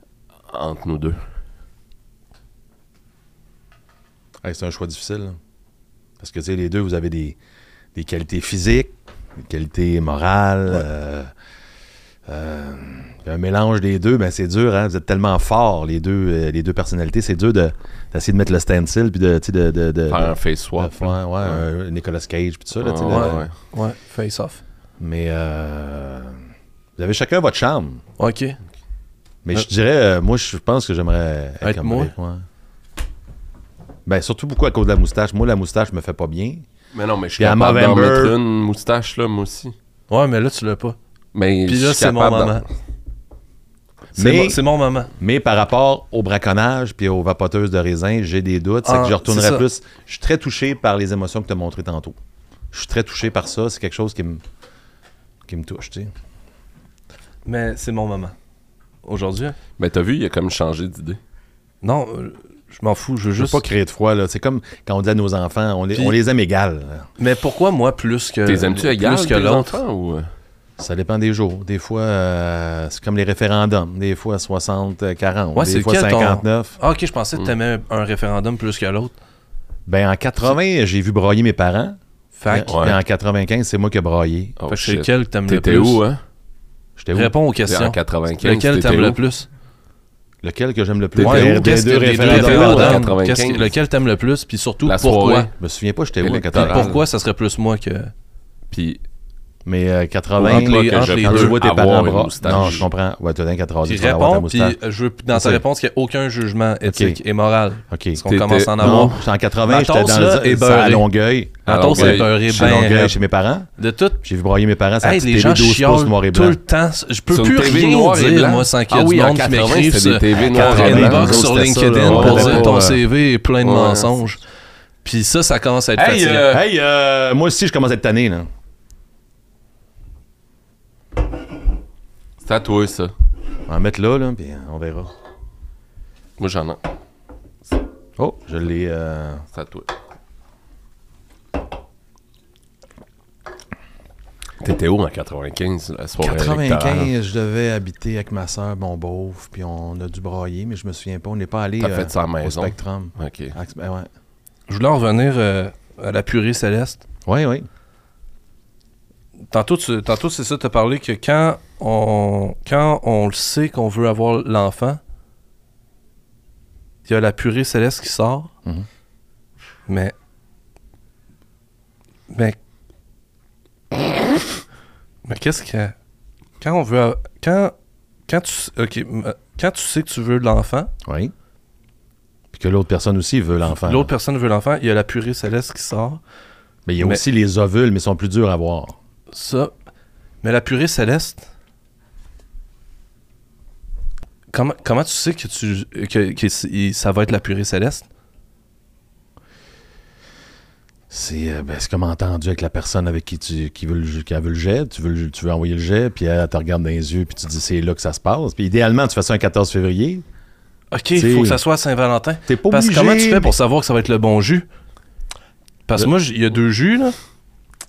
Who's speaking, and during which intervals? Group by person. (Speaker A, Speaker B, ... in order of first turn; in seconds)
Speaker A: 0.5-1.2, 20.1-21.6, 22.8-23.5, 36.9-39.8, 41.3-42.6, 59.8-61.2, 68.5-70.3, 82.7-83.0, 84.6-86.2, 87.7-89.2, 91.2-93.7, 94.8-95.5, 96.2-97.0, 98.7-99.0, 100.4-102.9, 108.2-109.2, 111.7-112.9, 117.3-121.5, 122.0-122.8, 123.6-124.2, 126.0-126.6, 132.4-133.1, 136.4-136.8, 139.5-139.9, 144.6-147.1, 151.8-153.6
Speaker B: 4.4-5.4, 6.2-7.4, 8.0-11.3, 12.3-23.5, 25.0-26.4, 27.0-28.0, 29.4-32.5, 34.1-36.7, 37.4-38.4, 44.2-44.6, 45.2-52.2, 52.7-54.4, 55.5-56.1, 63.4-67.1, 70.8-76.8, 79.9-82.0, 82.5-84.6, 87.0-87.3, 90.4-93.1, 95.6-97.0, 99.7-104.8, 105.3-105.6, 106.9-107.2, 107.9-108.2, 108.8-113.7, 114.2-116.6, 120.4-123.0, 126.5-128.5, 133.7-135.1, 138.2-139.4, 146.2-154.1, 157.2-157.7, 181.1-181.3, 182.5-184.1, 186.9-189.0, 201.1-210.2, 211.2-211.6, 212.5-213.5
Speaker C: 23.1-24.6, 28.2-28.6, 31.6-32.1, 40.1-41.0, 41.7-42.6, 44.1-45.1, 48.8-49.6, 57.5-58.4, 59.0-59.6, 61.8-63.6, 67.2-69.8, 75.6-79.1, 82.4-82.7, 84.7-86.0, 87.1-89.5, 91.2-95.5, 96.5-98.1, 100.4-101.6, 103.8-111.1, 111.7-113.2, 113.8-114.2, 115.0-124.4, 125.0-126.5, 154.7-157.0, 159.5-165.0, 167.1-168.5, 169.9-170.1, 172.3-172.6, 175.2-175.9, 176.6-177.7, 178.3-180.9, 183.7-186.2, 189.3-189.7, 190.4-191.5, 194.5-198.1, 210.9-214.7, 215.9-217.2